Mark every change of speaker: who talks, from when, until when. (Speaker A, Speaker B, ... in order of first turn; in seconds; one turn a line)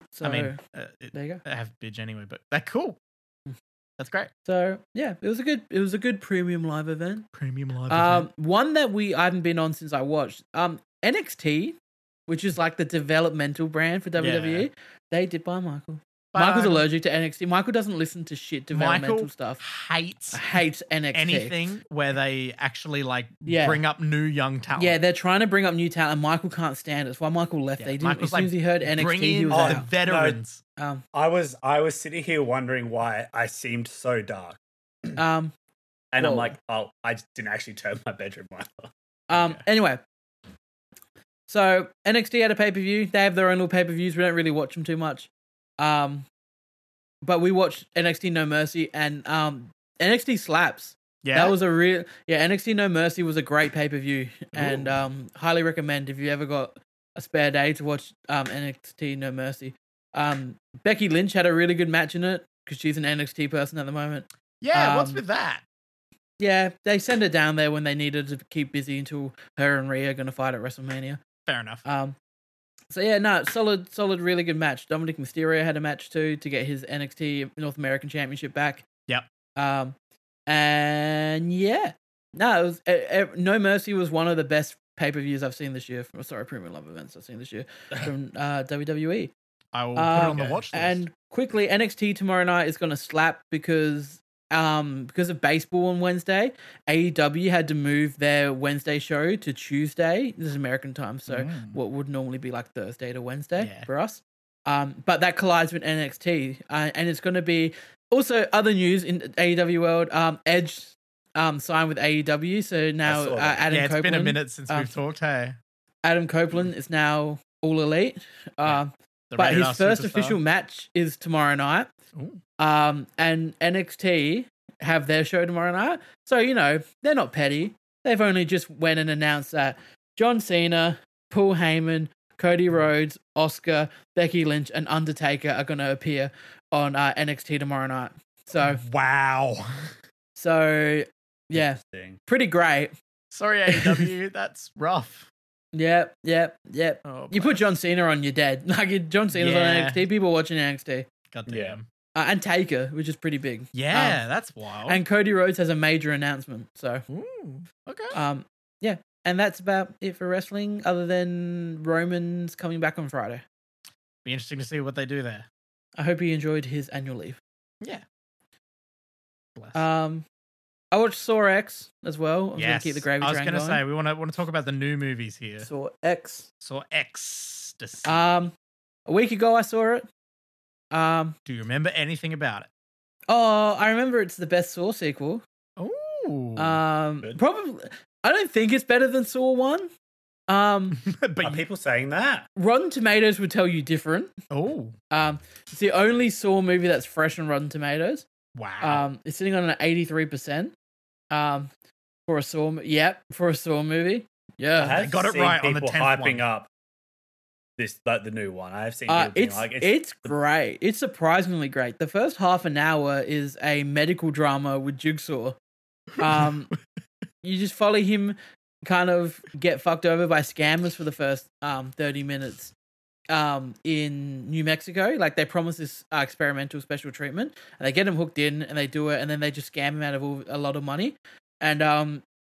Speaker A: 0.1-0.6
Speaker B: 0.2-3.0
Speaker A: 1.1-1.4
Speaker B: 4.0-4.3
Speaker A: 4.5-7.3
Speaker B: 7.3-8.3
Speaker A: 7.9-11.8
Speaker A: 12.3-19.6
Speaker B: 14.2-14.7
Speaker B: 16.3-16.9
Speaker B: 18.7-20.6
Speaker A: 20.3-21.5
Speaker B: 21.1-25.0
Speaker A: 23.5-23.8
Speaker A: 24.8-29.9
Speaker B: 27.8-30.6
Speaker C: 29.5-30.4
Speaker A: 30.8-31.0
Speaker C: 31.1-34.6
Speaker A: 35.2-35.5
Speaker C: 36.1-38.9
Speaker A: 36.2-36.5
Speaker A: 39.3-40.0
Speaker A: 41.5-46.3
Speaker A: 47.2-65.2
Speaker B: 51.2-51.6
Speaker B: 54.6-54.9
Speaker B: 64.6-65.6
Speaker A: 66.4-71.2
Speaker B: 71.5-71.8
Speaker A: 71.8-72.2
Speaker A: 72.9-78.9
Speaker A: 79.6-80.0
Speaker A: 80.5-89.3
Speaker B: 89.7-91.0
Speaker A: 90.0-114.9
Speaker C: 90.2-90.6
Speaker B: 101.3-101.8
Speaker B: 103.6-103.9
Speaker C: 113.0-113.7
Speaker B: 113.7-115.6
Speaker A: 116.0-121.9
Speaker B: 118.6-120.4
Speaker B: 122.2-122.4
Speaker A: 122.6-138.8
Speaker B: 138.6-139.9
Speaker A: 140.4-142.9
Speaker C: 141.6-142.2
Speaker B: 143.3-145.3
Speaker A: 143.7-144.1
Speaker A: 145.7-151.1
Speaker B: 147.1-147.6
Speaker B: 149.3-150.0
Speaker B: 151.3-151.8
Speaker C: 151.5-151.8
Speaker A: 152.2-154.2
Speaker B: 153.7-155.0
Speaker A: 154.9-157.0
Speaker B: 157.1-158.2
Speaker A: 158.1-163.4
Speaker B: 164.2-165.5
Speaker A: 166.0-167.4
Speaker B: 169.6-169.8
Speaker A: 169.8-170.2
Speaker A: 170.9-173.8
Speaker B: 172.6-175.7
Speaker A: 175.6-176.5
Speaker B: 176.6-178.2
Speaker A: 178.1-178.5
Speaker A: 179.1-180.1
Speaker A: 180.9-181.4
Speaker B: 181.5-182.7
Speaker A: 183.3-185.4
Speaker B: 185.8-186.8
Speaker A: 186.6-189.9
Speaker A: 190.5-191.0
Speaker B: 190.9-191.6
Speaker C: 191.4-192.5
Speaker A: 192.6-194.3
Speaker B: 194.5-194.9
Speaker A: 195.1-198.3
Speaker B: 198.6-199.0
Speaker A: 198.8-200.7
Speaker A: 201.3-201.7
Speaker A: 202.3-205.0
Speaker C: 204.8-206.7
Speaker B: 204.9-206.4
Speaker C: 207.8-210.3
Speaker A: 209.1-215.6
Speaker A: 216.2-216.7
Speaker B: 216.2-216.5
Speaker A: 217.4-222.7
Speaker A: 223.3-232.2